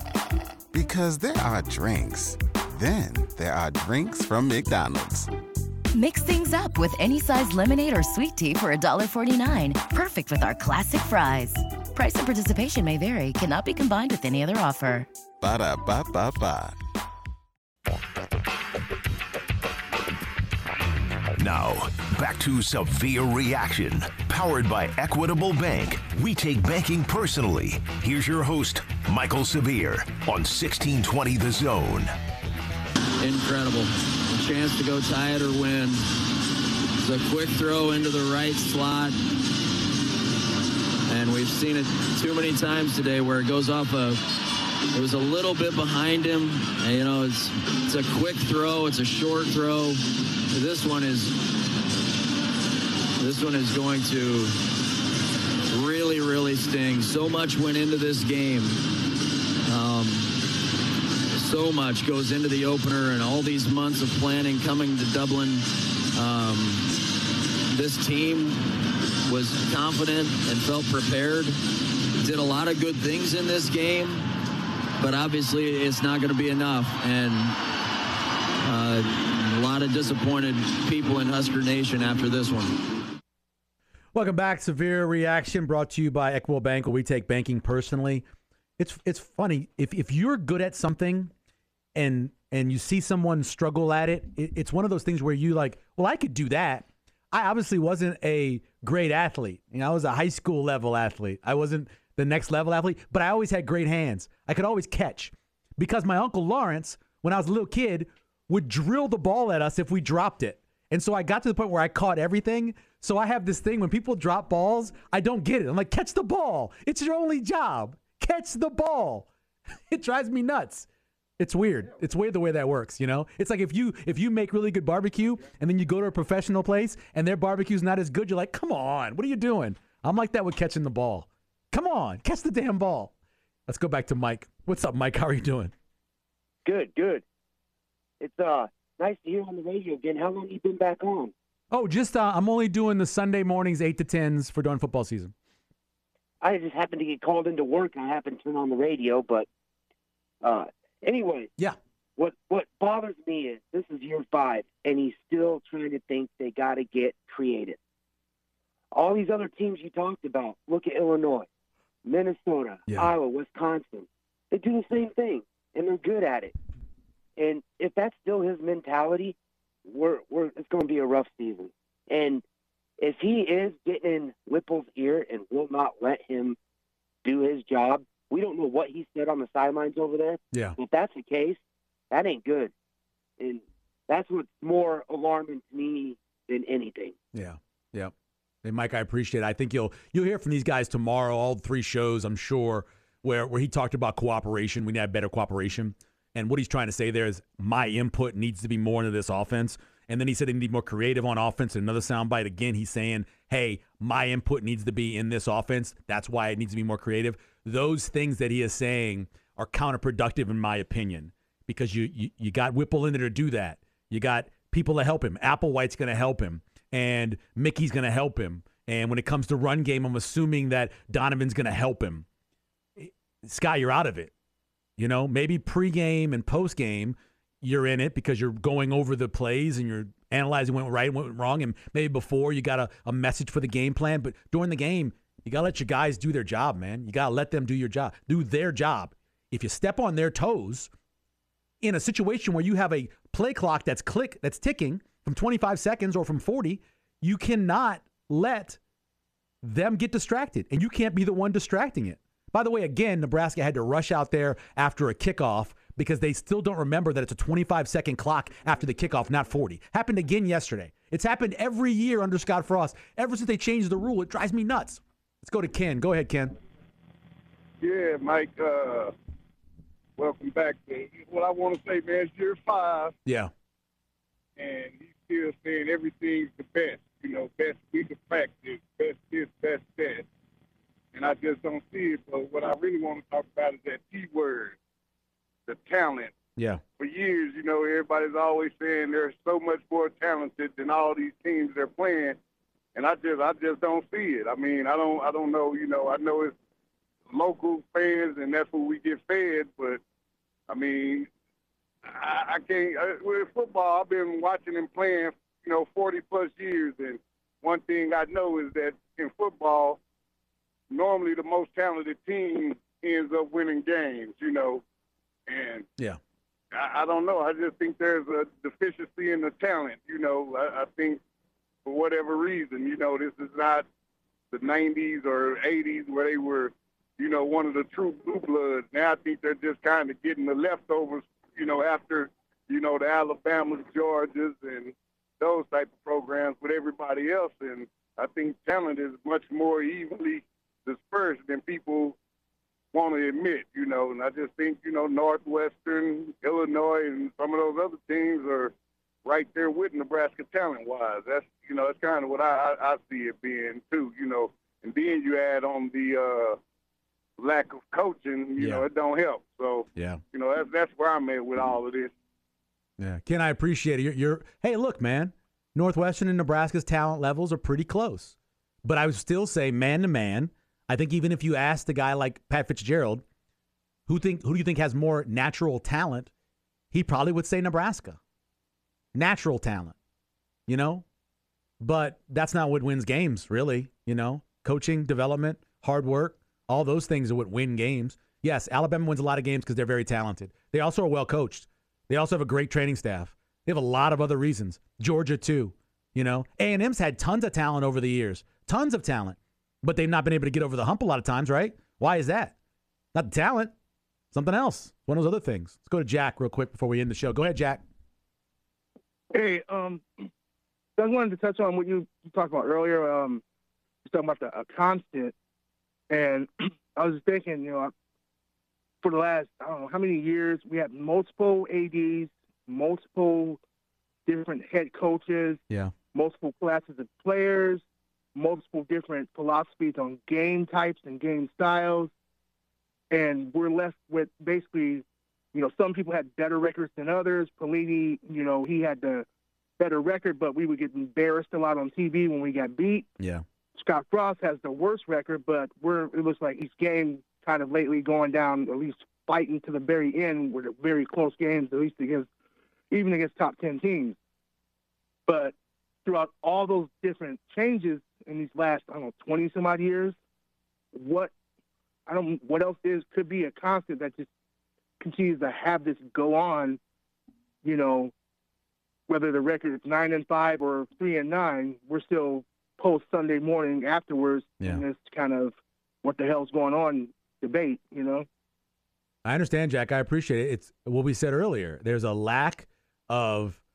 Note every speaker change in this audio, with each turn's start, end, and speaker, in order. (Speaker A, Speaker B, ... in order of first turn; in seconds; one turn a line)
Speaker A: 0.7-5.3
Speaker B: 5.9-15.1
Speaker A: 15.4-16.8
Speaker C: 21.4-32.1
Speaker D: 33.2-36.0
Speaker D: 37.0-39.2
Speaker D: 41.1-44.2
Speaker D: 44.9-51.5
Speaker D: 53.2-54.6
Speaker D: 55.7-58.8
Speaker D: 59.6-60.3
Speaker D: 61.3-66.9
Speaker D: 67.7-68.6
Speaker D: 69.2-71.5
Speaker D: 72.2-74.2
Speaker D: 75.0-77.6
Speaker D: 78.6-82.8
Speaker E: 84.1-88.2
Speaker E: 88.8-91.3
Speaker E: 91.9-119.3
Speaker E: 119.9-120.9
Speaker E: 121.4-133.1
Speaker E: 133.7-135.7
Speaker F: 136.6-137.2
Speaker F: 138.2-141.3
Speaker E: 141.7-145.3
Speaker F: 146.4-149.5
Speaker F: 150.4-151.5
Speaker F: 152.2-157.8
Speaker F: 158.9-161.5
Speaker F: 162.0-166.5
Speaker E: 162.9-163.1
Speaker F: 167.4-172.4
Speaker F: 173.0-176.6
Speaker F: 177.2-181.6
Speaker E: 180.5-180.8
Speaker F: 182.1-182.7
Speaker F: 183.4-187.1
Speaker E: 187.3-188.1
Speaker E: 188.6-222.2
Speaker E: 223.0-224.3
Speaker E: 225.0-240.9
Speaker E: 241.8-248.8
Speaker E: 249.6-266.5
Speaker G: 267.8-269.1
Speaker G: 270.2-273.1
Speaker E: 273.2-273.5
Speaker G: 274.6-280.2
Speaker G: 281.1-284.8
Speaker G: 285.7-286.4
Speaker G: 287.0-292.4
Speaker G: 292.9-296.5
Speaker G: 297.3-300.0
Speaker G: 300.7-301.3
Speaker G: 302.0-310.0
Speaker G: 310.9-314.8
Speaker G: 315.5-315.9
Speaker G: 316.7-321.2
Speaker G: 321.8-323.9
Speaker G: 324.5-342.2
Speaker G: 342.9-348.7
Speaker G: 349.2-356.6
Speaker G: 357.4-362.1
Speaker E: 358.6-358.8
Speaker E: 359.9-360.2
Speaker E: 363.0-373.2
Speaker E: 374.1-376.3
Speaker E: 376.9-378.2
Speaker E: 379.1-379.9
Speaker E: 380.7-381.0
Speaker E: 381.8-402.5
Speaker E: 403.1-403.7
Speaker E: 404.3-407.8
Speaker H: 409.3-410.0
Speaker H: 411.0-413.4
Speaker H: 414.1-415.3
Speaker H: 416.1-417.9
Speaker H: 419.0-423.6
Speaker H: 424.2-425.6
Speaker H: 426.1-427.8
Speaker H: 428.3-432.1
Speaker H: 433.1-439.2
Speaker H: 439.8-443.1
Speaker H: 443.7-452.3
Speaker H: 452.9-454.1
Speaker H: 455.3-455.5
Speaker H: 456.0-460.1
Speaker H: 460.9-461.3
Speaker H: 462.1-464.3
Speaker H: 465.0-466.8
Speaker H: 467.6-468.1
Speaker H: 469.1-478.2
Speaker E: 479.2-483.6